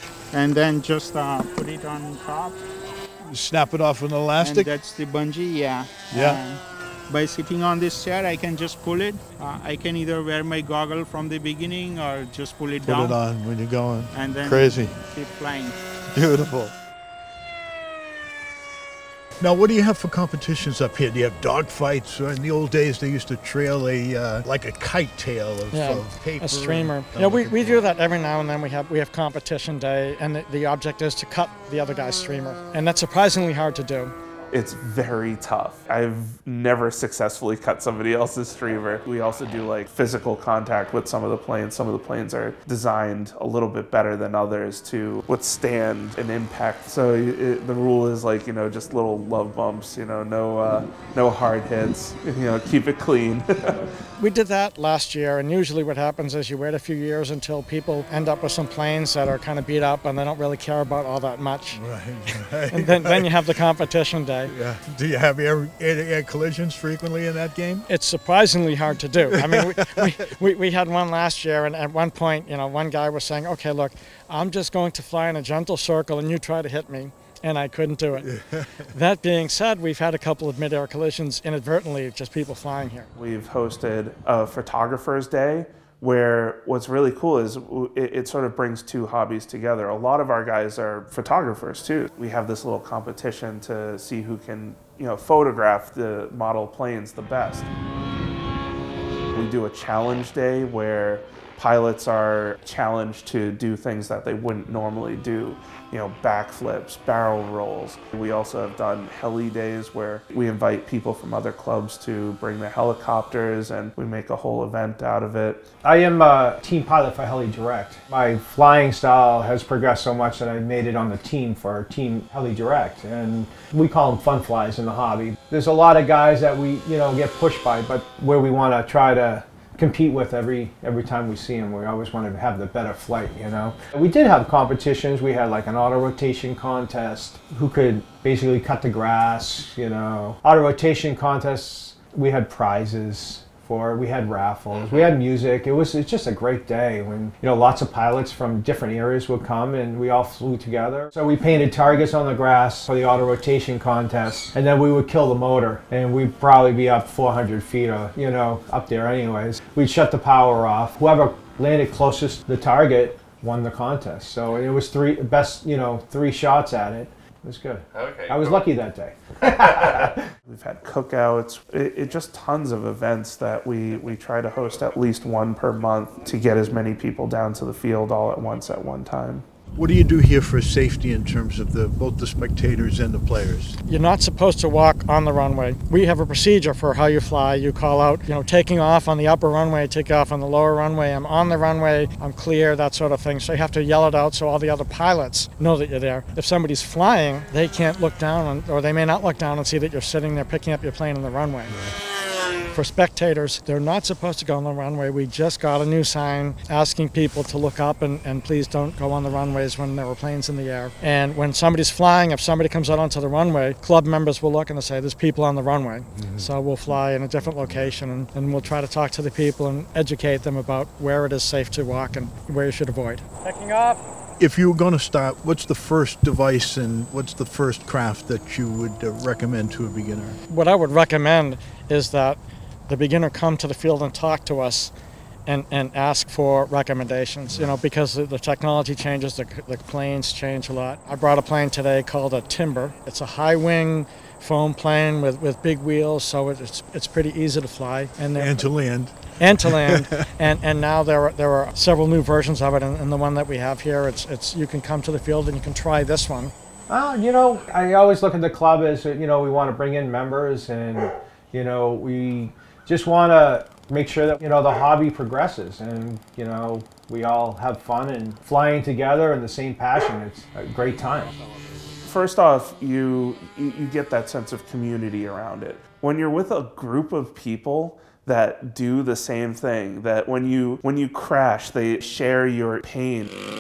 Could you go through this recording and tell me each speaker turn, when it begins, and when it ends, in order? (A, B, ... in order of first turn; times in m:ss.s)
0:00.3-0:02.6 A
0:03.3-0:04.7 B
0:04.4-0:13.2 A
0:06.1-0:06.4 B
0:12.8-0:15.0 B
0:14.1-0:15.8 A
0:16.1-0:16.7 B
0:19.4-0:27.9 B
0:25.7-0:34.1 C
0:34.5-0:53.8 D
0:54.2-1:04.5 C
1:01.7-1:03.3 B
1:04.5-1:07.9 B
1:07.9-1:18.3 C
1:09.3-1:10.2 B
1:18.2-1:18.9 B
1:18.9-1:23.1 C
1:23.2-1:37.7 D
1:39.3-1:55.7 D
1:55.8-2:50.3 E
2:50.5-2:59.4 D
2:59.8-3:03.8 B
3:03.9-3:21.8 C
3:22.7-3:44.0 C
3:36.2-3:36.5 B
3:44.4-3:50.4 B
3:50.5-3:54.9 C
3:55.5-4:08.7 C
4:08.4-4:10.3 B
4:09.4-4:16.5 C
4:16.9-4:31.4 E
4:32.0-4:43.3 D